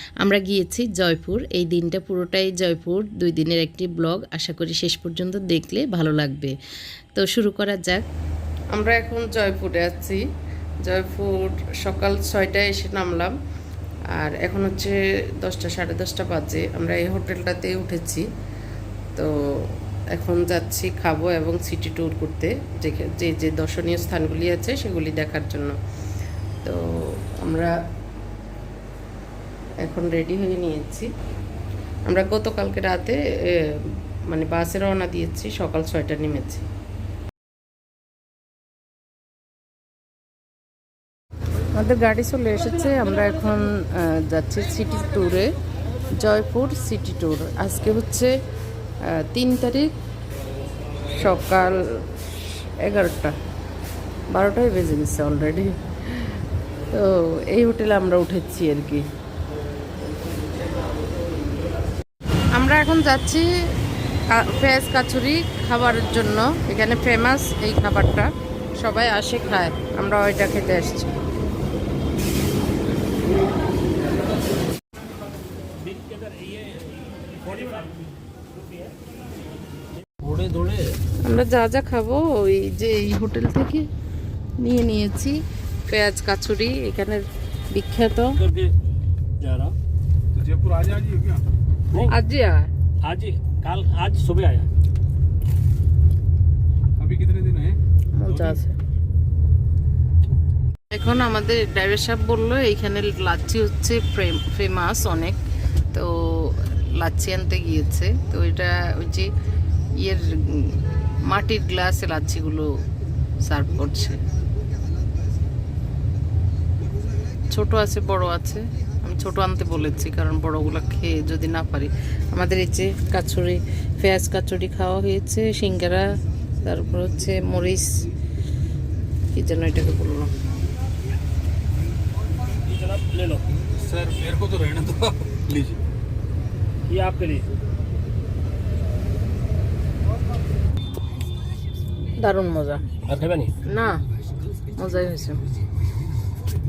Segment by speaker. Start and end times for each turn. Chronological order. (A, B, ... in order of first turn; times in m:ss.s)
0:00.2-0:06.5 A
0:07.2-0:08.0 A
0:08.7-0:10.2 A
0:10.8-0:13.3 A
0:14.2-0:18.2 A
0:20.1-0:25.7 A
0:27.4-0:27.7 A
0:29.8-0:31.1 A
0:32.1-0:33.2 A
0:34.3-0:36.6 A
0:41.8-0:45.5 A
0:46.1-0:48.3 A
0:49.1-0:49.9 A
0:51.1-0:51.8 A
0:52.8-0:53.3 A
0:54.3-0:56.3 A
0:56.9-0:59.0 A
1:02.6-1:03.4 A
1:04.3-1:08.3 A
1:08.8-1:11.1 A
1:15.8-1:17.9 B
1:20.2-1:20.9 B
1:21.3-1:23.9 A
1:24.6-1:27.2 A
1:27.8-1:28.4 A
1:28.4-1:28.7 B
1:29.4-1:29.7 B
1:30.3-1:31.4 C
1:32.1-1:32.7 A
1:33.0-1:34.7 B
1:37.0-1:38.6 C
1:38.2-1:38.7 A
1:40.9-1:45.4 A
1:45.9-1:49.3 A
1:49.9-1:52.7 A
1:53.4-1:54.2 A
1:57.5-2:06.0 A
2:06.6-2:07.8 A
2:09.3-2:10.3 A
2:12.7-2:13.4 B
2:13.8-2:15.8 C
2:16.9-2:17.5 B
2:22.2-2:22.8 A
2:23.0-2:23.5 B
2:23.7-2:24.0 A
2:24.8-2:25.4 A